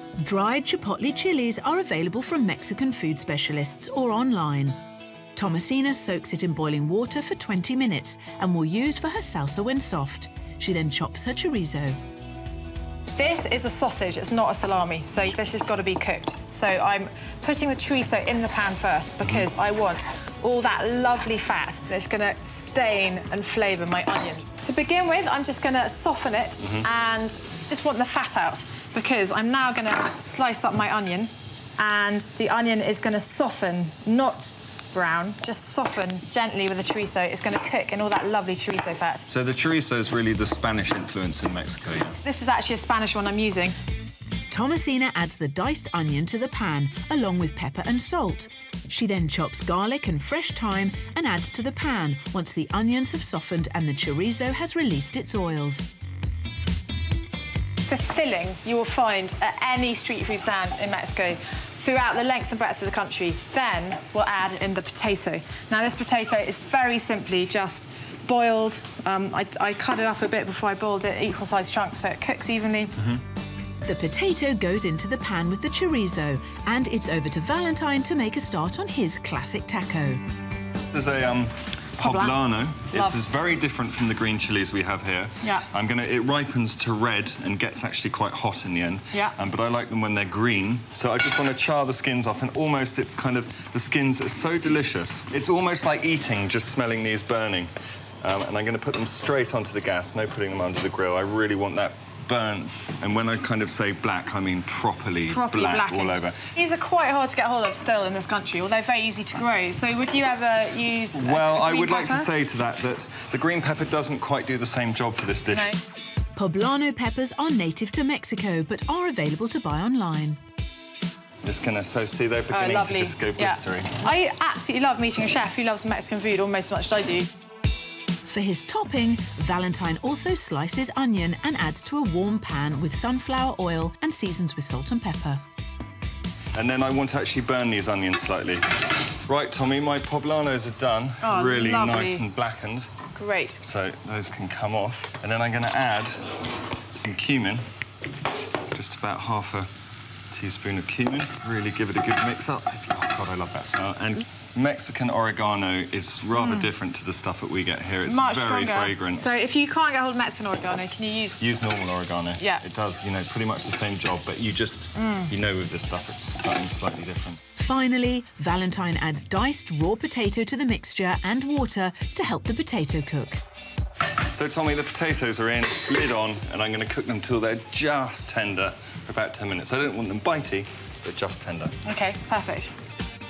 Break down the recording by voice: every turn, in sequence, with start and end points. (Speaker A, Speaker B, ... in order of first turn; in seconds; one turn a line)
Speaker A: 0.2-4.8
Speaker A: 5.4-12.0
Speaker B: 13.1-39.2
Speaker C: 19.2-19.5
Speaker C: 26.6-26.9
Speaker C: 39.3-42.2
Speaker B: 42.2-43.8
Speaker A: 44.5-55.9
Speaker B: 57.9-73.0
Speaker A: 73.8-80.2
Speaker C: 80.9-97.7
Speaker B: 82.0-83.2
Speaker C: 98.2-106.5
Speaker B: 105.3-112.3
Speaker C: 111.2-115.8
Speaker B: 115.5-115.8
Speaker A: 116.4-120.4
Speaker C: 121.4-124.1
Speaker B: 122.5-127.3
Speaker A: 128.2-135.4
Speaker C: 136.6-143.0
Speaker B: 141.2-142.2
Speaker B: 143.2-143.6
Speaker C: 143.6-146.3
Speaker C: 146.9-147.6
Speaker C: 148.7-149.7
Speaker C: 150.3-159.3
Speaker B: 156.3-156.7
Speaker B: 158.0-161.4
Speaker C: 161.4-167.4
Speaker B: 162.4-162.7
Speaker B: 165.0-165.3
Speaker A: 167.6-173.4
Speaker C: 174.3-181.8
Speaker B: 181.8-182.7